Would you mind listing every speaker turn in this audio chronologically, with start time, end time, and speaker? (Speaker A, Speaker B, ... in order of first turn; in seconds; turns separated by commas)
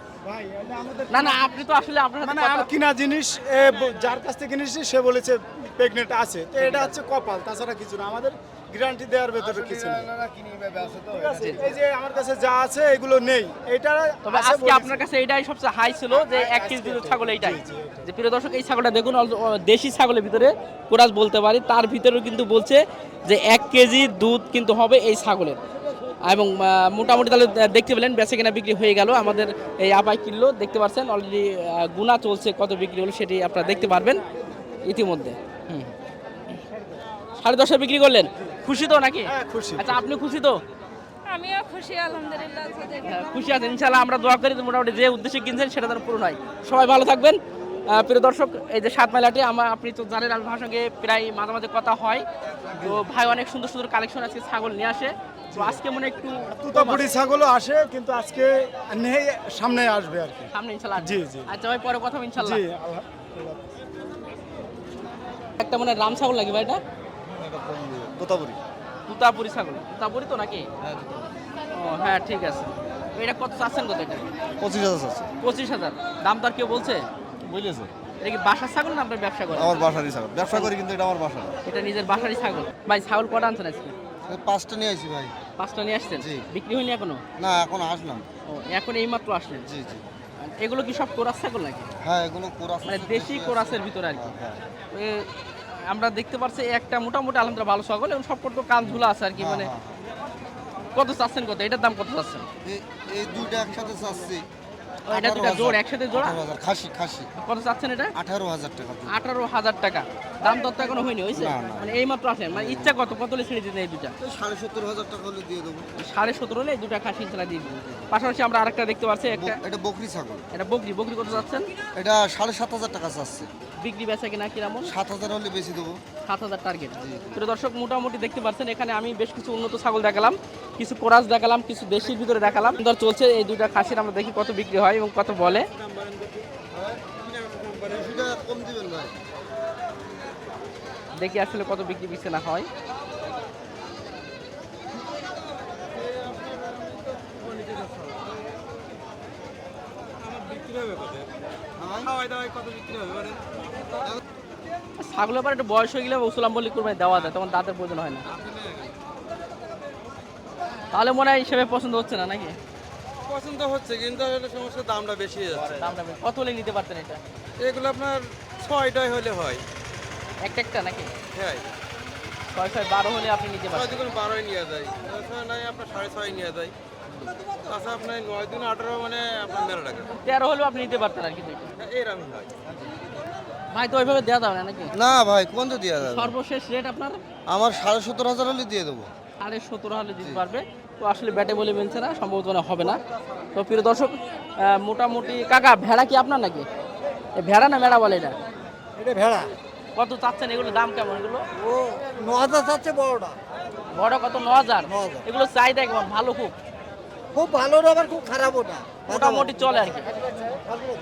Speaker A: 0.2-1.7, Speaker B: 1.1-2.7, Speaker A: 2.2-10.1, Speaker B: 6.6-6.9, Speaker C: 9.4-11.8, Speaker A: 11.1-15.1, Speaker B: 11.3-11.6, Speaker B: 14.2-25.6, Speaker A: 16.1-18.1, Speaker B: 26.2-34.2, Speaker B: 34.9-35.9, Speaker B: 37.4-40.6, Speaker A: 39.2-40.0, Speaker D: 41.2-43.2, Speaker B: 43.0-52.2, Speaker A: 52.7-53.0, Speaker B: 52.8-57.1, Speaker A: 55.5-55.8, Speaker A: 56.5-61.5, Speaker B: 60.5-62.6, Speaker A: 62.4-63.6, Speaker B: 65.6-66.8, Speaker E: 67.3-68.6, Speaker B: 69.1-70.7, Speaker E: 70.8-71.3, Speaker B: 71.7-74.3, Speaker E: 74.6-75.3, Speaker B: 75.4-77.0, Speaker E: 77.4-77.9, Speaker B: 78.2-79.9, Speaker E: 79.5-81.6, Speaker B: 80.4-80.7, Speaker B: 81.7-83.9, Speaker E: 84.3-85.3, Speaker B: 85.6-87.2, Speaker E: 86.2-86.4, Speaker E: 87.4-88.2, Speaker B: 88.5-89.7, Speaker E: 89.7-90.0, Speaker B: 90.4-91.9, Speaker E: 92.0-94.6, Speaker B: 92.9-94.3, Speaker B: 94.9-99.7, Speaker E: 98.8-100.0, Speaker B: 100.9-102.5, Speaker E: 102.6-104.4, Speaker B: 105.1-106.4, Speaker E: 105.1-107.3, Speaker B: 107.4-108.1, Speaker E: 108.2-109.2, Speaker B: 109.1-114.1, Speaker E: 111.3-113.0, Speaker E: 114.2-115.9, Speaker B: 116.0-119.6, Speaker E: 119.3-120.5, Speaker B: 120.5-121.7, Speaker E: 121.2-123.5, Speaker B: 123.8-124.9, Speaker E: 124.8-126.0, Speaker B: 126.2-135.7, Speaker E: 127.0-127.3, Speaker C: 135.7-136.4, Speaker E: 136.9-139.2, Speaker B: 141.2-142.7, Speaker C: 146.1-148.2, Speaker C: 150.2-151.3, Speaker E: 151.8-152.2, Speaker C: 152.1-153.5, Speaker B: 155.0-158.2, Speaker C: 158.3-158.9, Speaker B: 160.9-162.6, Speaker C: 163.2-165.9, Speaker B: 165.8-167.2, Speaker C: 167.6-169.6, Speaker B: 170.4-171.1, Speaker C: 171.3-171.7, Speaker B: 172.5-174.0, Speaker C: 173.7-176.7, Speaker C: 177.7-180.1, Speaker B: 180.1-181.7, Speaker C: 181.8-182.5, Speaker B: 183.7-184.9, Speaker E: 184.9-186.3, Speaker B: 186.0-187.2, Speaker E: 187.5-189.1, Speaker B: 189.4-193.0, Speaker E: 190.2-190.4, Speaker B: 193.6-196.7, Speaker B: 197.4-198.4, Speaker E: 199.1-199.4, Speaker B: 199.9-201.4, Speaker E: 201.6-203.3, Speaker B: 203.9-206.5, Speaker E: 204.9-205.2, Speaker E: 207.4-209.6, Speaker B: 209.1-210.1